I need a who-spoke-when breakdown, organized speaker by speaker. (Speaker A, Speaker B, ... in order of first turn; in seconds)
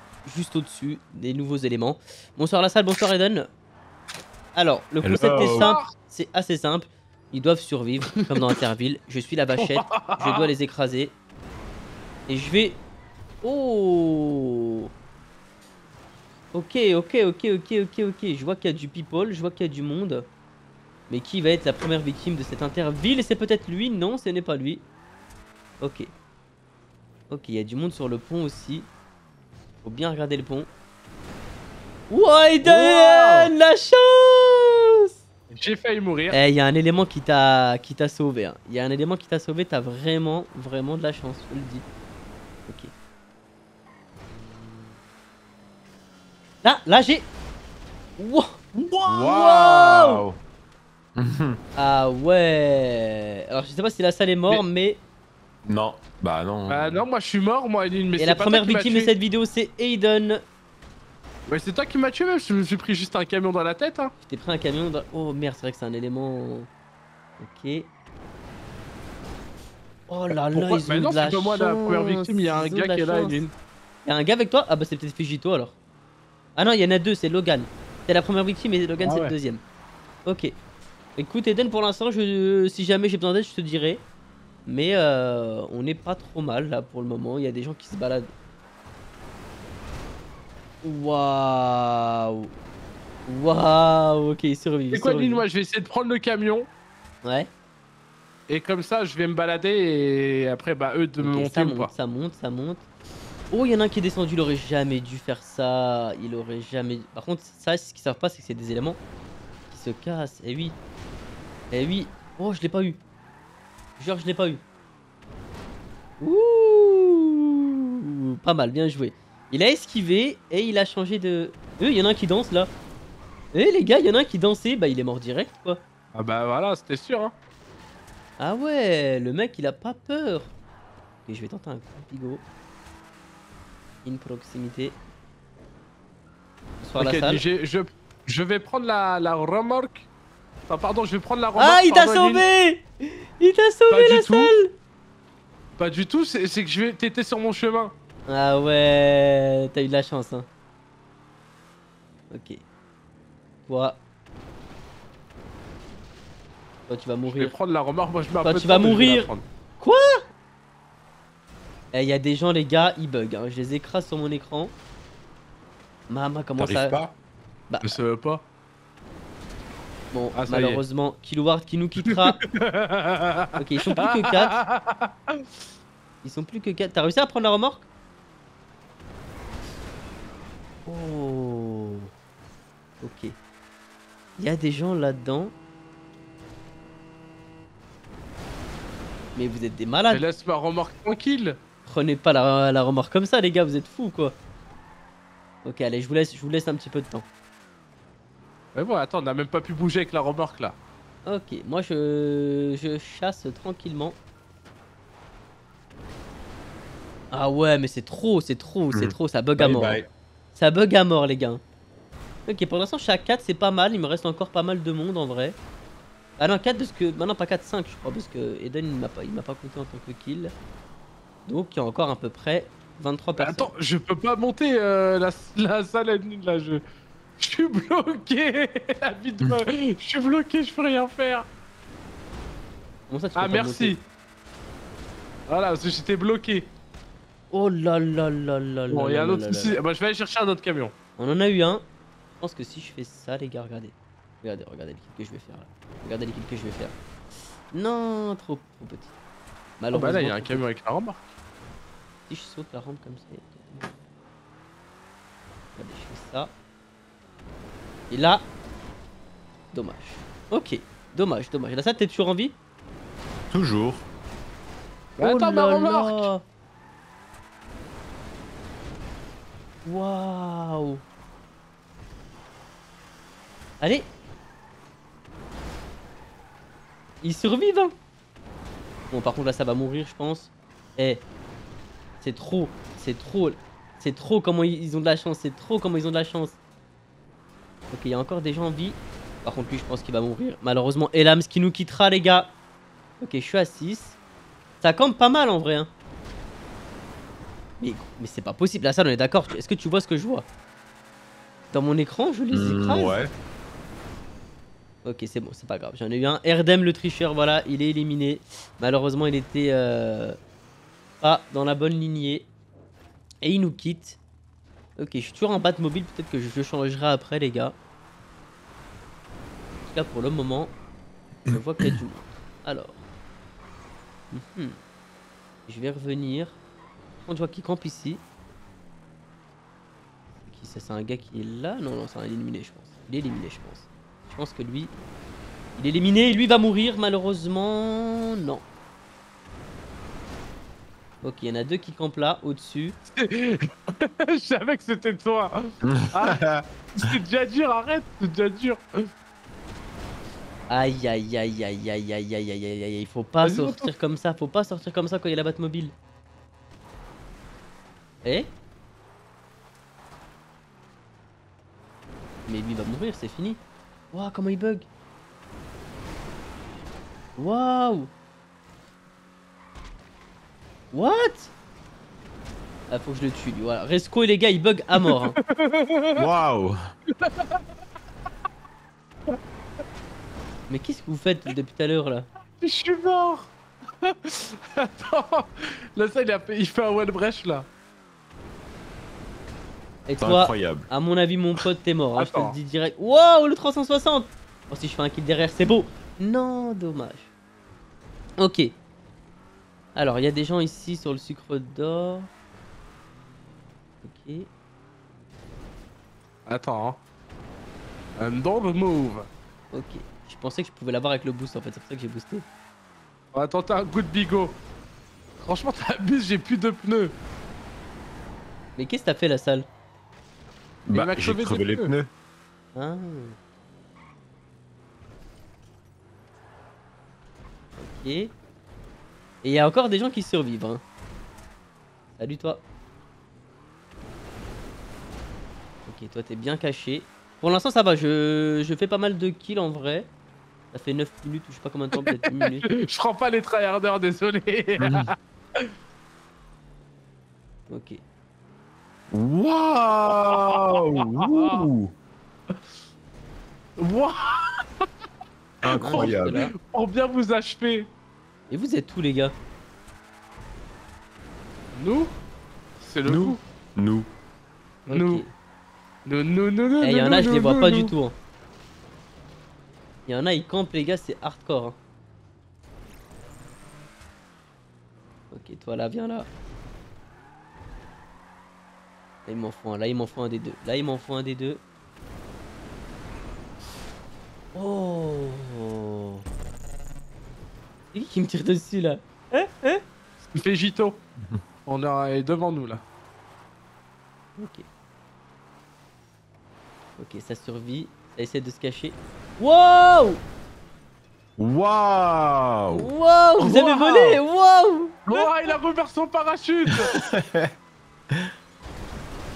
Speaker A: 0.2-3.5, 4.5-11.1, 12.3-12.8, 13.4-14.9, 16.5-20.3, 21.1-24.8, 25.8-26.1, 27.3-28.9, 29.8-30.7, 32.1-34.8, 36.3-41.9, 46.6-47.3, 48.2-48.6, 49.2-50.2, 51.8-55.0, 58.2-60.4, 64.2-66.7, 67.4-67.9, 70.1-73.4, 74.0-75.7, 76.5-79.6, 80.2-80.6, 81.2-84.0, 84.7-88.3, 90.8-92.5, 93.3-95.4, 97.2-97.5, 101.2-102.8, 103.5-109.0, 109.7-110.8, 111.7-113.0, 114.0-114.6, 116.2-122.7, 123.5-125.8, 128.4-130.5, 131.2-132.4, 134.0-135.0, 136.8-137.4, 141.6-144.7, 148.3-150.5, 152.3-152.6, 153.6-154.0, 156.9-157.5, 158.4-160.2, 161.9-164.7, 166.1-167.0, 167.7-168.0, 170.1-172.4, 173.6-174.6, 176.2-177.9, 180.8-182.1, 183.0-183.3, 184.4-185.5, 189.3-190.2, 191.8-194.4, 195.6-197.2, 201.2-204.2, 207.3-210.0, 210.5-211.6, 212.5-215.6, 216.4-220.5, 221.4-223.7, 233.1-233.9, 237.5-239.8, 241.2-241.8, 242.4-246.9, 247.7-249.1, 249.8-250.6, 252.3-253.9, 255.8-256.5, 258.1-258.4, 259.7-262.6, 265.2-266.4, 269.8-271.0, 273.8-274.1, 277.2-277.9, 279.1-281.2, 282.2-286.6, 287.9-292.5, 293.2-294.2, 294.8-295.9, 297.8-300.4, 301.7-303.2, 305.0-310.4, 311.2-312.5, 313.4-314.2, 315.0-317.8, 319.9-320.7, 321.5-323.0, 324.3-324.8, 325.7-326.6, 327.2-328.2, 330.4-334.9, 335.8-338.6, 341.2-343.0, 350.7-355.9, 358.2-358.5, 362.5-363.6, 364.1-364.9, 367.4-368.1, 370.9-371.5, 372.9-375.4, 380.7-382.3, 390.1-397.3, 398.4-398.8, 399.9-402.3, 404.0-404.5, 409.7-412.4, 418.8-419.7, 422.7-423.4, 427.8-428.3, 429.4-430.8, 432.1-432.6, 435.8-440.1, 440.7-442.7, 447.7-448.0, 455.6-456.5, 458.5-459.4, 464.9-465.3, 466.8-468.2, 470.1-471.8, 475.3-476.3, 479.2-481.6, 484.5-486.2, 487.9-489.8, 494.4-494.6, 497.0-500.2, 502.7-505.2
Speaker B: 5.0-5.8, 49.0-50.4, 51.1-51.6, 55.6-57.0, 166.6-167.2, 208.9-210.1, 263.5-264.1, 302.5-303.3, 321.5-321.9, 345.8-346.6, 376.1-376.8, 390.2-390.9, 420.9-422.1, 444.8-445.1, 449.1-451.9, 455.6-456.4, 463.1-464.1, 501.4-502.9, 506.7-507.5
Speaker C: 5.3-5.9, 9.6-10.5, 32.6-33.5, 35.5-36.4, 48.7-49.2, 56.7-59.1, 61.5-64.1, 70.3-73.5, 79.0-79.3, 94.9-96.7, 98.5-101.9, 126.1-127.3, 137.0-140.1, 140.7-142.4, 143.9-144.5, 145.8-147.9, 157.2-159.4, 167.8-168.4, 170.3-170.8, 172.1-175.4, 190.1-191.6, 198.7-200.8, 223.4-226.8, 227.4-231.5, 233.3-234.0, 235.5-236.7, 238.9-240.9, 249.9-251.3, 265.2-266.3, 343.1-345.5, 346.1-346.4, 346.9-348.8, 353.4-353.9, 375.0-376.2, 377.2-377.6, 382.6-387.7, 392.2-392.6, 406.5-407.0, 408.2-409.3, 413.3-414.6, 415.4-417.1, 420.9-421.9, 442.0-445.7, 450.1-451.7, 453.8-454.6, 455.6-457.9, 461.7-462.1, 462.8-463.4, 464.9-465.2, 466.1-467.9, 490.2-491.0, 491.6-492.8, 503.4-504.2, 505.1-506.9